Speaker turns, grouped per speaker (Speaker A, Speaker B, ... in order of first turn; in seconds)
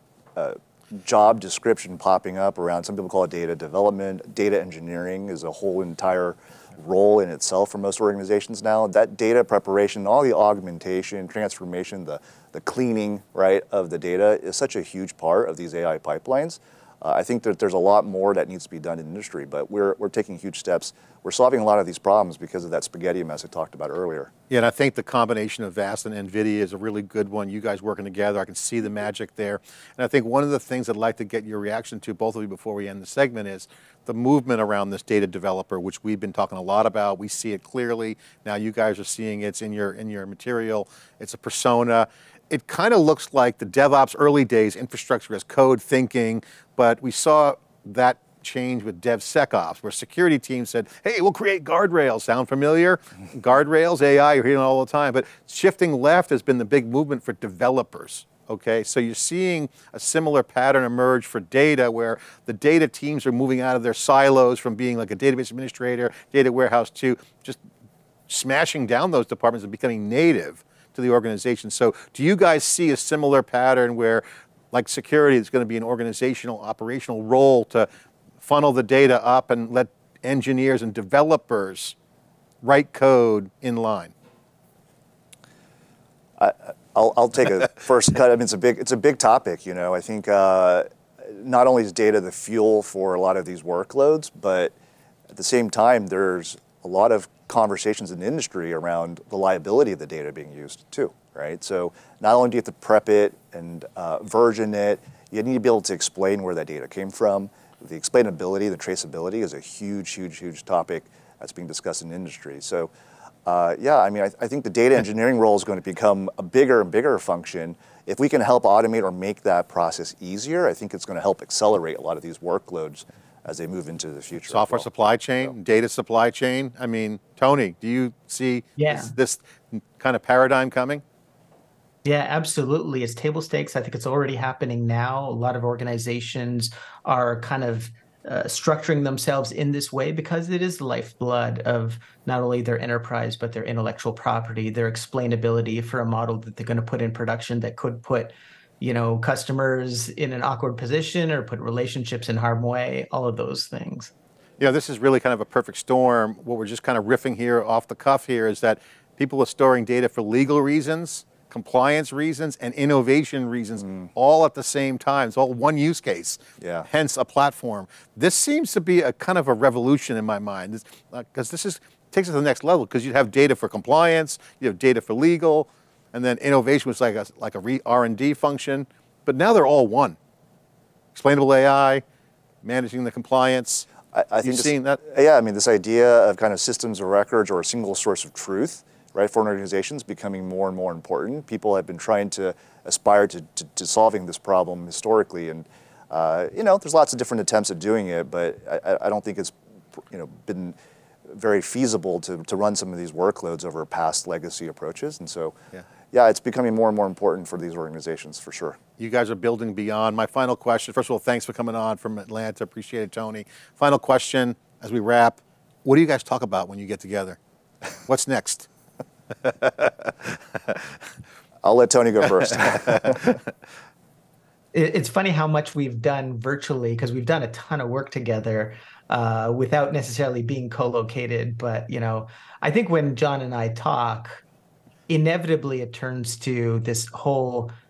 Speaker A: 0.3-24.3, 86.4-94.7, 95.3-112.9, 113.5-124.9, 166.6-166.9, 184.1-200.8, 201.3-205.5, 206.1-208.8, 221.6-223.4
Speaker B: 24.5-67.6, 68.3-77.9, 78.4-81.9, 82.6-84.1, 124.4-131.0, 154.6-180.2, 181.1-182.0, 182.6-183.9, 184.4-185.0, 209.0-217.4, 218.1-218.7, 219.4-219.9
Speaker C: 128.8-129.1, 132.0-154.1, 224.7-234.4, 235.1-237.7